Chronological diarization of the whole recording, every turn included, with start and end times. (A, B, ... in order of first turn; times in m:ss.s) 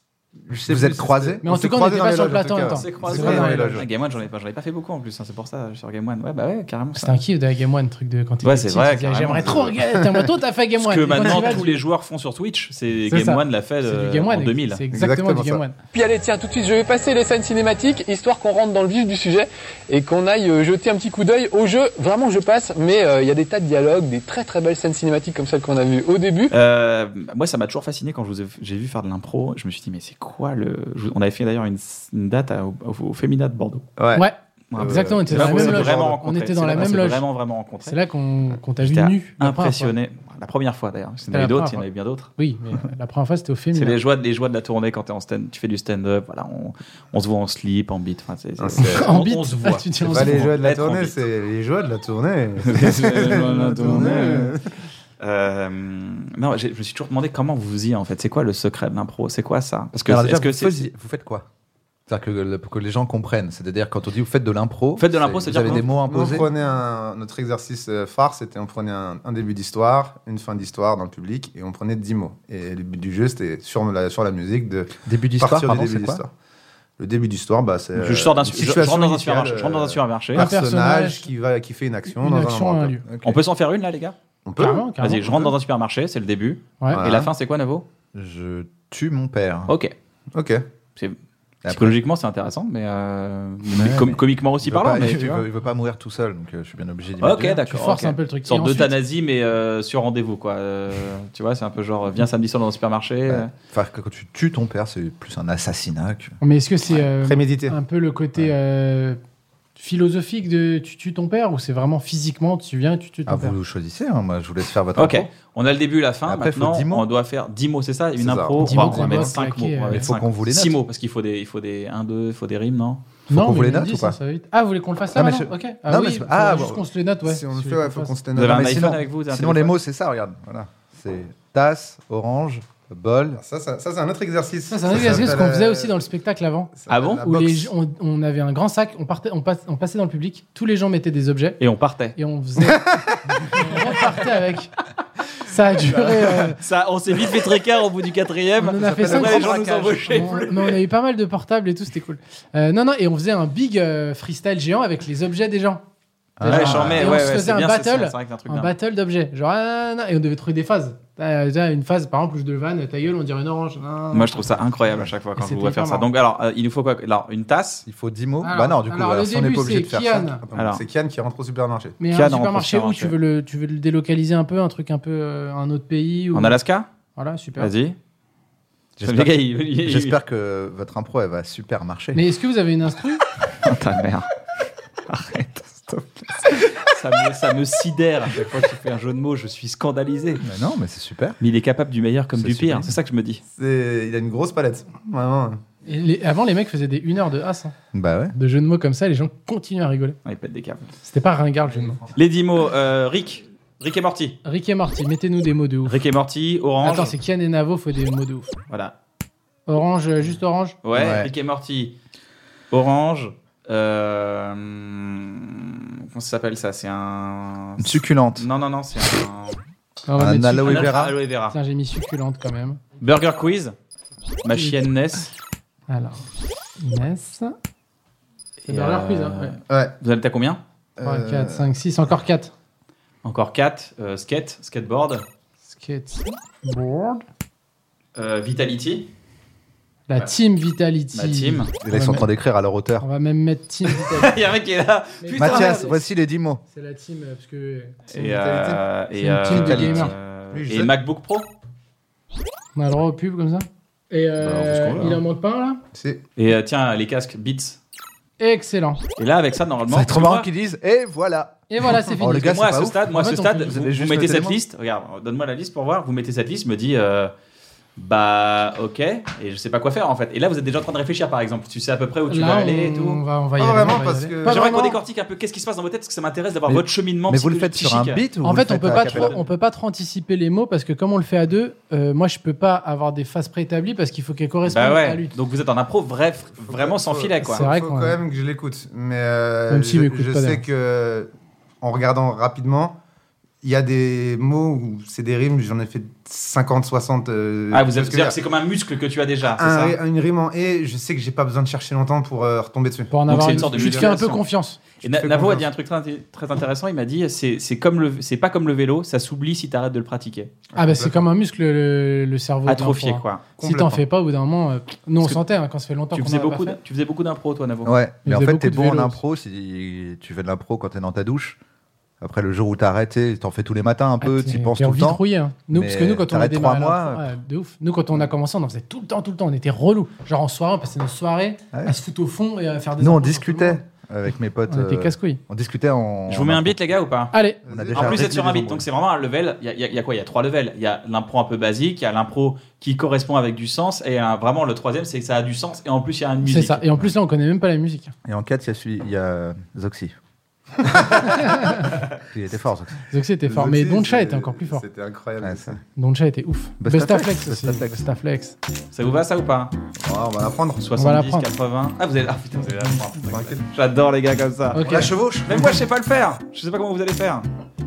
0:00.4-0:03.9 A
0:00.5-0:02.7 B
0:01.4-0:03.8 C
0:02.7-0:07.1 D
0:07.0-0:11.8 C
0:08.4-0:09.6 D
0:09.5-0:10.1 A
0:10.8-0:14.8 D
0:11.2-0:11.6 A
0:13.1-0:15.8 C
0:14.9-0:15.6 A
0:15.9-0:26.5 E
0:26.5-0:33.9 D
0:34.0-0:36.2 A
0:34.1-0:37.2 C
0:34.7-0:38.0 D
0:37.8-0:39.9 C
0:38.8-0:42.3 D
0:41.3-0:41.8 C
0:42.4-0:44.0 C
0:43.7-0:51.2 D
0:48.6-0:49.1 A
0:48.9-0:50.5 C
0:50.1-0:54.6 A
0:52.6-0:54.5 D
0:53.6-0:54.5 C
0:55.2-1:00.8 D
1:00.1-1:01.4 B
1:02.1-1:06.5 B
1:05.0-1:05.9 D
1:05.6-1:16.3 A
1:15.0-1:16.2 B
1:17.0-1:23.0 A
1:18.0-1:20.5 D
1:20.3-1:21.3 C
1:22.1-1:23.0 C
1:23.1-1:23.4 B
1:23.2-1:24.2 D
1:24.4-1:24.9 A
1:24.6-1:25.5 C
1:25.0-1:27.8 D
1:26.9-1:27.3 A
1:28.1-1:29.7 B
1:29.7-1:29.9 D
1:30.3-1:30.6 A
1:31.0-1:35.4 D
1:31.6-1:32.0 B
1:33.7-1:37.6 B
1:37.2-1:43.5 D
1:37.6-1:38.9 C
1:43.3-1:46.3 B
1:46.4-1:49.2 C
1:47.1-1:47.8 A
1:49.8-1:53.6 C
1:53.3-1:55.3 B
1:55.0-2:03.0 D
1:56.2-1:57.0 B
1:58.2-1:59.3 A
1:58.6-2:00.1 C
1:59.9-2:00.8 B
2:03.3-2:04.2 B
2:03.3-2:08.1 C
2:05.1-2:06.8 B
2:07.2-2:08.9 A
2:08.3-2:09.7 D
2:08.4-2:13.4 B
2:13.4-2:16.1 A
2:14.7-2:21.6 C
2:16.8-2:17.7 A
2:16.9-2:17.3 D
2:21.6-2:22.2 D
2:22.2-2:24.7 C
2:22.6-2:23.7 A
2:25.4-2:26.6 C
2:26.0-2:30.8 D
2:28.6-2:35.8 C
2:28.8-2:29.5 A
2:36.4-2:37.3 B
2:36.4-2:44.5 C
2:36.5-2:38.7 D
2:44.1-2:47.8 D
2:45.4-2:46.0 C
2:47.8-2:50.3 B
2:48.4-2:50.4 C
2:50.4-2:52.0 A
2:50.5-2:50.8 D
2:52.0-2:56.6 C
2:52.1-2:53.1 D
2:56.3-2:56.9 D
2:57.2-2:57.7 C
2:57.6-2:58.0 D
2:59.0-3:02.2 B
2:59.0-3:00.2 D
3:02.1-3:03.2 C
3:03.6-3:04.3 D
3:05.1-3:10.4 D
3:10.4-3:11.4 B
3:11.4-3:13.4 D
3:12.3-3:12.9 B
3:13.5-3:15.6 A
3:15.8-3:17.7 C
3:17.9-3:18.3 B
3:18.3-3:20.2 C
3:20.2-3:20.9 D
3:21.0-3:22.0 C
3:21.6-3:22.2 B
3:22.2-3:24.4 D
3:24.4-3:26.0 C
3:25.8-3:27.1 D
3:26.8-3:28.5 C
3:28.7-3:28.9 D
3:29.7-3:30.8 C
3:30.8-3:32.0 D
3:30.9-3:31.3 B
3:32.7-3:39.6 D
3:37.8-3:38.5 B
3:40.1-3:42.8 C
3:40.2-3:41.2 B
3:40.6-3:41.6 D
3:43.0-3:43.7 D
3:44.4-3:45.3 D
3:45.9-3:46.2 C
3:46.8-3:47.5 C
3:48.6-3:49.5 C
3:48.7-3:50.6 D
3:51.0-3:51.7 A
3:51.0-3:52.5 C
3:53.2-3:55.2 D
3:55.7-3:57.2 C
3:58.2-3:59.1 D
4:00.1-4:02.3 C
4:01.1-4:01.7 D
4:01.8-4:03.0 B
4:03.0-4:04.4 C
4:03.9-4:05.8 D
4:05.2-4:06.0 C
4:05.3-4:06.6 B
4:06.7-4:08.0 C
4:08.1-4:11.5 D
4:08.1-4:08.8 A
4:09.2-4:10.1 C
4:09.5-4:10.0 A
4:09.7-4:09.9 B
4:10.5-4:10.9 A
4:12.8-4:15.8 C
4:14.4-4:15.2 D
4:15.9-4:16.2 A
4:16.4-4:17.8 D
4:18.4-4:19.0 C
4:19.2-4:20.5 D
4:19.9-4:24.6 B
4:21.7-4:22.5 C
4:22.4-4:27.3 D
4:23.1-4:23.7 C
4:28.0-4:33.2 D
4:32.3-4:35.0 C
4:33.6-4:34.8 A
4:34.4-4:38.2 D
4:36.7-4:39.4 B
4:38.4-4:45.4 C
4:38.9-4:39.4 D
4:44.7-4:47.7 D
4:46.6-4:51.3 A
4:47.5-4:48.2 C
4:49.7-4:50.6 C
4:51.8-4:53.0 A
4:53.6-4:58.4 A
4:57.7-5:00.0 D
4:59.5-5:04.1 A
5:03.1-5:04.8 C
5:03.3-5:04.4 D
5:05.0-5:05.7 A
5:05.0-5:10.5 D
5:10.7-5:11.3 A
5:10.8-5:16.8 C
5:12.6-5:13.5 D
5:13.6-5:14.0 A
5:16.1-5:18.0 D
5:17.8-5:21.6 B
5:18.2-5:19.2 C
5:22.2-5:27.4 B
5:24.2-5:33.8 C
5:33.0-5:37.0 B
5:34.7-5:35.4 C
5:36.3-5:37.3 D
5:37.3-5:37.6 C
5:37.6-5:38.2 A
5:37.6-5:38.9 B
5:37.9-5:46.8 D
5:46.4-5:48.1 C
5:48.2-5:50.1 B
5:51.3-5:51.8 C
5:52.2-5:53.0 B
5:53.1-5:54.8 C
5:53.4-5:55.8 A
5:55.4-5:55.8 B
5:56.0-5:58.6 C
5:56.8-5:58.0 B
5:58.9-5:59.7 D
6:00.0-6:00.8 A
6:00.8-6:07.5 D
6:01.0-6:01.4 C
6:03.3-6:03.6 A
6:04.7-6:05.1 C
6:04.9-6:05.5 A